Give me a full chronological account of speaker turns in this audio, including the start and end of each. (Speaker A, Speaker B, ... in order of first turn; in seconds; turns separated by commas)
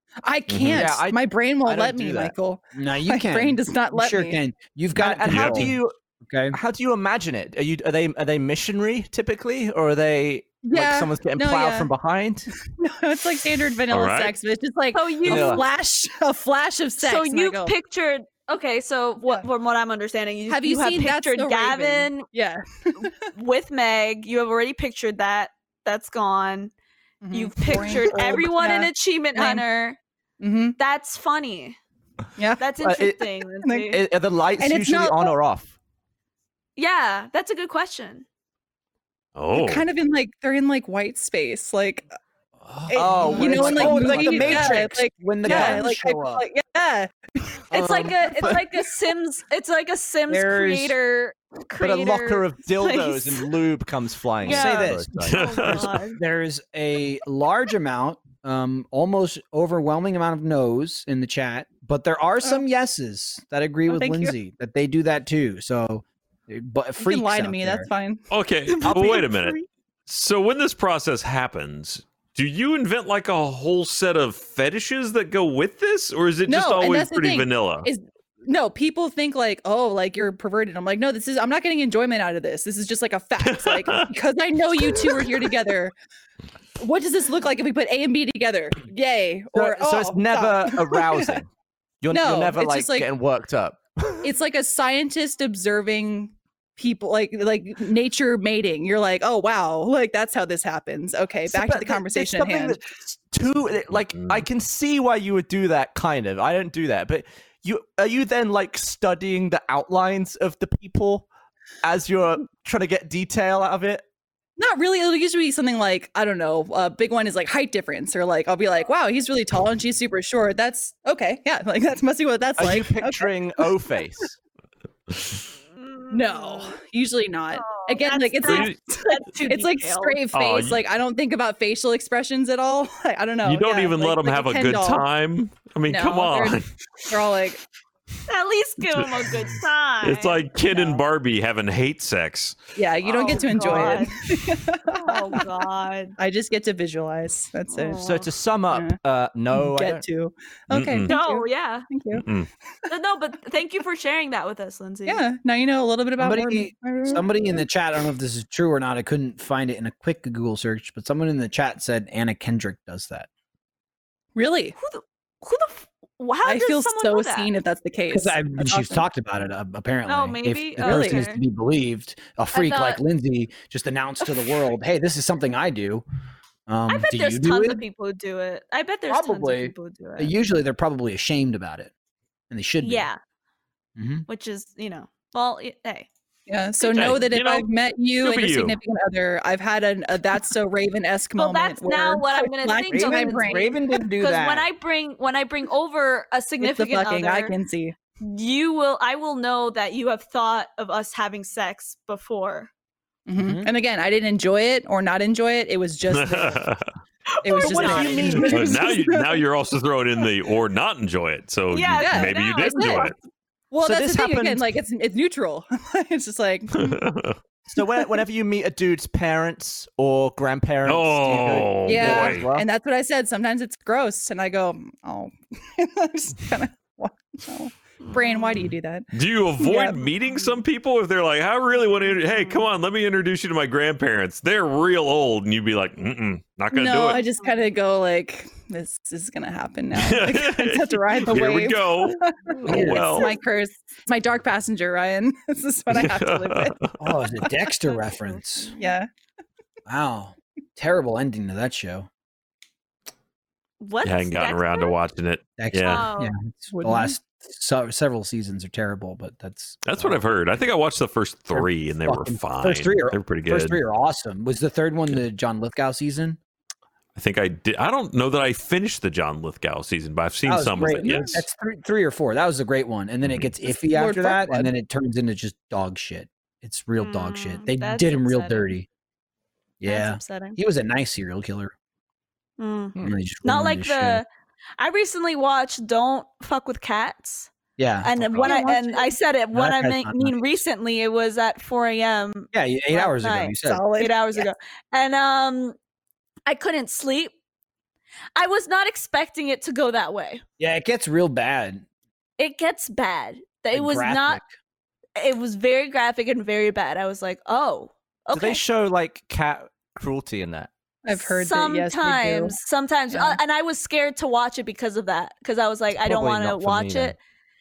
Speaker A: 0.2-4.4, Speaker B: 0.5-0.9, Speaker C: 0.7-2.3, Speaker D: 2.7-6.6, Speaker C: 5.0-5.9, Speaker B: 5.2-5.8, Speaker C: 6.5-12.5, Speaker A: 10.6-11.9, Speaker A: 12.7-17.7, Speaker B: 13.9-14.3, Speaker E: 14.9-15.6, Speaker C: 15.3-15.6, Speaker E: 17.0-22.3, Speaker A: 20.5-23.3, Speaker E: 23.0-26.7, Speaker A: 27.2-29.6, Speaker E: 27.3-30.0, Speaker A: 30.4-30.8, Speaker E: 30.8-31.8, Speaker A: 32.4-32.7, Speaker E: 32.6-34.0, Speaker C: 32.8-33.2, Speaker A: 33.6-33.9, Speaker C: 33.9-35.7, Speaker A: 34.6-35.3, Speaker E: 36.8-38.2, Speaker B: 39.4-39.9, Speaker A: 39.5-42.1, Speaker A: 42.9-47.1, Speaker C: 42.9-44.8, Speaker D: 42.9-46.4, Speaker C: 45.5-45.8, Speaker D: 47.7-48.3, Speaker E: 47.7-53.5, Speaker D: 50.3-51.0, Speaker C: 51.8-55.4, Speaker E: 54.4-56.2, Speaker D: 54.4-67.9, Speaker B: 55.2-55.9, Speaker A: 63.9-64.3, Speaker A: 67.0-68.2, Speaker B: 68.3-77.9, Speaker E: 68.7-69.7, Speaker A: 76.5-85.9, Speaker B: 83.4-84.1, Speaker B: 84.9-85.3, Speaker A: 86.8-91.4, Speaker C: 89.5-91.5, Speaker C: 92.0-94.3, Speaker A: 92.1-93.1, Speaker A: 94.2-102.8, Speaker C: 101.5-111.3, Speaker B: 104.2-104.4, Speaker C: 111.8-114.0, Speaker A: 114.6-123.7, Speaker C: 122.6-124.4, Speaker B: 125.1-125.4, Speaker E: 125.8-126.8, Speaker A: 126.1-135.1, Speaker E: 127.5-130.2, Speaker B: 128.4-128.8, Speaker B: 130.3-130.8, Speaker B: 133.4-136.8, Speaker A: 135.9-137.6, Speaker E: 138.3-140.4, Speaker B: 140.0-142.6, Speaker A: 140.7-141.0, Speaker A: 142.8-145.5, Speaker E: 143.1-144.2, Speaker E: 144.9-146.2, Speaker A: 146.2-148.1, Speaker E: 147.7-148.3, Speaker C: 148.0-150.0, Speaker A: 148.7-149.0, Speaker A: 149.5-152.2, Speaker B: 150.7-151.2, Speaker E: 151.1-151.9, Speaker B: 152.1-152.5, Speaker E: 152.9-155.2, Speaker A: 155.1-157.6, Speaker D: 156.2-163.3, Speaker A: 164.4-164.8, Speaker E: 164.8-167.5, Speaker A: 166.4-169.0, Speaker D: 168.1-176.0, Speaker E: 170.1-171.4, Speaker A: 170.8-171.2, Speaker E: 172.5-173.0, Speaker D: 176.7-177.8, Speaker E: 176.9-180.3, Speaker D: 179.1-181.9, Speaker D: 182.5-183.1, Speaker E: 182.8-183.2, Speaker D: 184.0-184.3, Speaker E: 184.3-186.1, Speaker A: 186.5-193.8, Speaker E: 186.8-187.3, Speaker B: 186.9-187.7, Speaker B: 188.2-188.8, Speaker E: 191.4-197.5, Speaker D: 192.9-194.7, Speaker A: 196.6-197.9, Speaker E: 198.2-202.7, Speaker A: 203.3-206.6, Speaker D: 203.4-203.7, Speaker B: 206.1-206.9, Speaker E: 207.3-208.5, Speaker A: 207.4-209.4, Speaker C: 207.6-208.9, Speaker B: 208.4-213.2, Speaker E: 211.7-213.2, Speaker A: 212.0-213.1, Speaker A: 213.7-217.0, Speaker C: 213.8-214.6, Speaker B: 216.7-217.4, Speaker C: 217.7-222.7, Speaker B: 220.8-222.5, Speaker A: 221.8-229.1, Speaker E: 228.0-228.6, Speaker B: 229.1-237.2, Speaker A: 229.6-230.1, Speaker E: 232.1-232.7, Speaker A: 236.7-246.8, Speaker B: 239.9-243.3, Speaker D: 242.7-243.2, Speaker B: 245.9-247.0, Speaker D: 247.0-248.7, Speaker A: 248.8-249.1, Speaker D: 249.9-252.1, Speaker E: 253.8-254.9, Speaker B: 254.0-256.1, Speaker D: 255.6-260.2, Speaker E: 255.9-256.3, Speaker A: 256.7-257.1, Speaker B: 259.8-263.8, Speaker D: 261.5-266.4, Speaker B: 267.1-271.4, Speaker D: 270.5-278.9, Speaker A: 270.8-271.4, Speaker A: 273.7-274.7, Speaker E: 277.0-278.7, Speaker D: 279.8-281.7, Speaker E: 279.8-280.6, Speaker E: 282.6-284.3, Speaker D: 283.0-284.2, Speaker E: 284.8-287.5, Speaker D: 287.8-288.5, Speaker E: 288.0-295.8, Speaker A: 288.4-289.1, Speaker D: 289.5-290.6, Speaker D: 292.5-293.8, Speaker A: 293.6-294.5, Speaker E: 296.5-297.3, Speaker E: 298.4-300.4, Speaker D: 300.6-301.9, Speaker E: 302.4-304.4, Speaker D: 303.7-304.5, Speaker E: 305.2-308.6, Speaker C: 308.3-310.7, Speaker A: 311.0-312.6, Speaker E: 311.1-317.2, Speaker A: 313.1-313.4, Speaker C: 316.0-317.1